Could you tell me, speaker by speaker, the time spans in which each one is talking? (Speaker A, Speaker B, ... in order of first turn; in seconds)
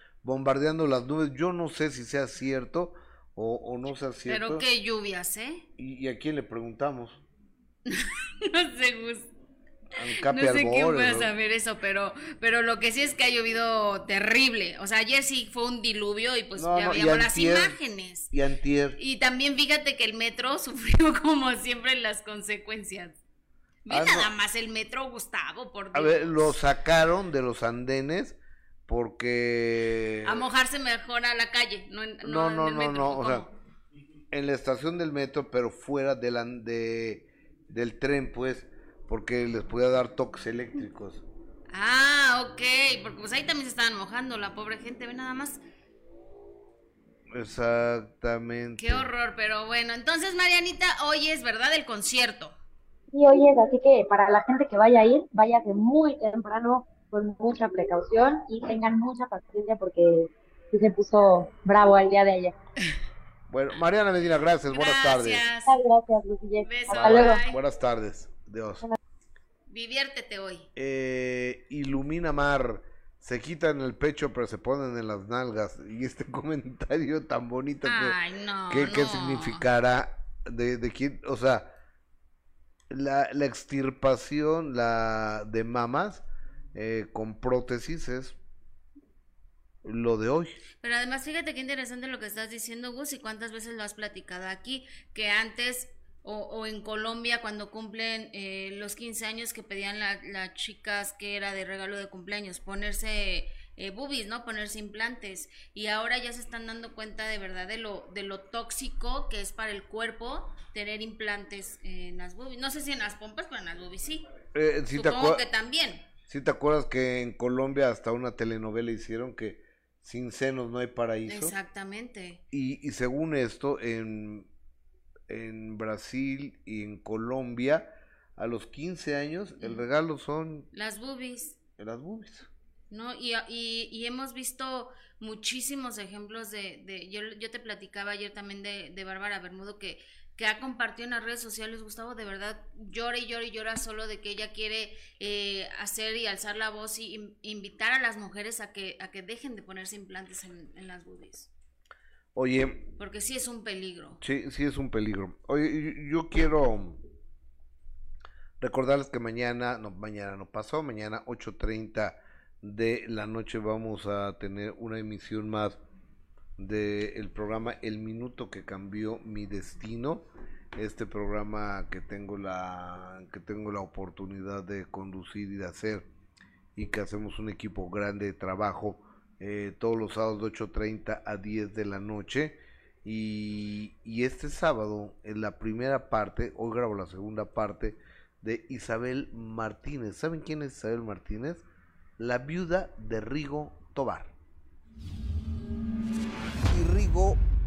Speaker A: 0.2-4.7, 5.8-7.2, 10.0-11.3, 16.6-17.8, 18.3-19.0, 23.9-24.3, 25.9-30.4, 32.2-33.5, 34.3-41.2, 47.3-49.1, 63.5-65.5, 66.9-68.8, 70.8-78.2, 78.7-81.7, 82.9-86.2, 86.8-88.4, 89.8-90.6, 114.5-115.4, 116.3-121.5, 122.5-124.5, 125.3-130.7, 131.8-132.5, 152.3-152.9, 154.2-157.0, 158.6-165.8, 166.6-176.1, 176.8-191.6, 192.2-194.3, 196.7-197.4
Speaker B: 4.3-5.7, 7.9-9.3, 10.2-18.3, 19.0-23.2, 23.9-26.6, 30.2-33.5, 41.7-45.6, 48.8-52.5, 64.7-65.8, 66.6-67.6, 69.7-70.7, 77.8-79.7, 90.8-114.3, 114.9-116.0, 121.3-122.4, 130.7-131.6, 132.9-151.5, 153.0-154.2
Speaker C: 53.1-62.5, 65.7-67.4